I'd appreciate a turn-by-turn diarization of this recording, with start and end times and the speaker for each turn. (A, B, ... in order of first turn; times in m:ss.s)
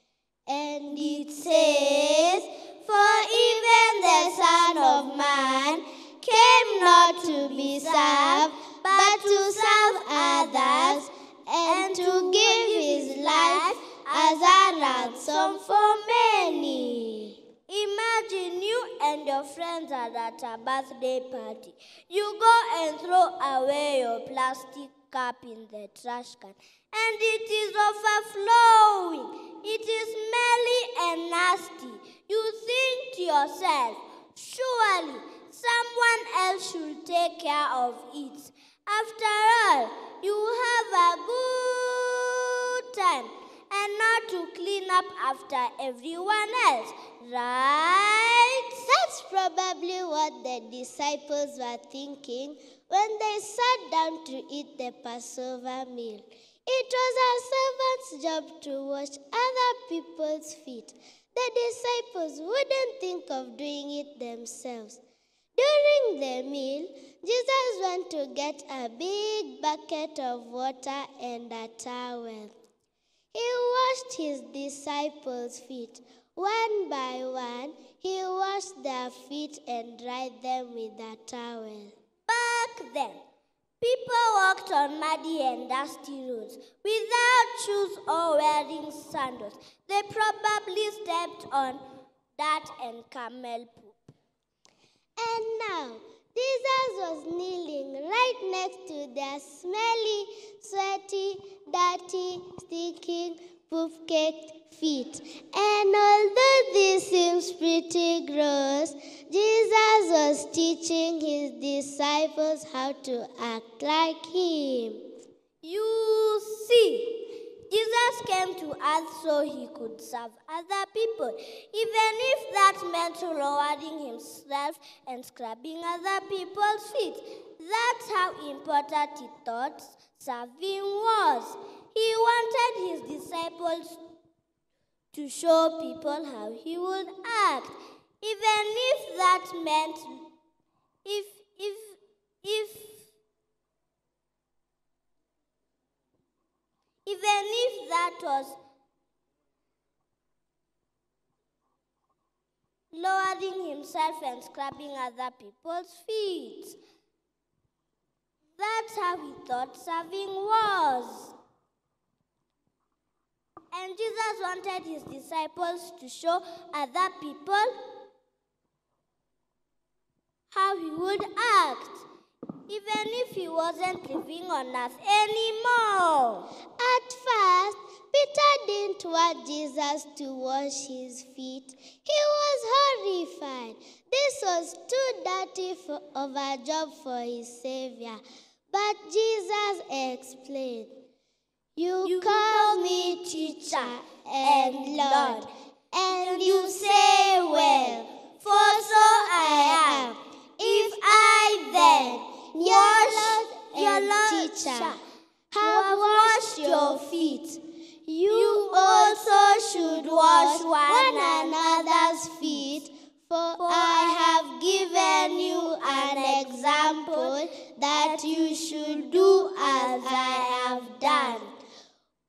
0:00.5-0:02.4 A
0:00.9-0:11.1 B
0:03.8-0:05.7 A
0:06.4-0:17.4 A
0:11.6-0:16.6 B
0:17.7-0:48.8 B
0:48.9-1:05.0 A
1:05.6-1:12.5 A
1:13.3-1:21.9 A
1:22.3-1:23.2 B
1:23.8-1:31.8 B
1:32.4-1:34.0 B
1:35.2-1:55.1 A
1:55.6-2:14.0 B
2:15.1-2:20.3 B
2:21.0-2:23.0 B
2:27.0-2:28.6 B
2:32.9-2:36.8 B
2:38.6-2:41.3 B
2:43.7-2:47.7 B
2:50.5-2:52.0 B
2:52.7-2:56.5 B
2:56.8-3:11.0 A
3:11.8-3:20.2 A
3:12.0-3:15.5 B
3:16.1-3:25.0 B
3:21.8-3:25.0 A
3:25.5-3:27.3 A
3:25.6-3:27.6 B
3:28.1-3:41.4 A
3:28.3-3:32.8 B
3:33.6-3:34.3 B
3:35.1-3:37.3 B
3:37.9-3:41.5 B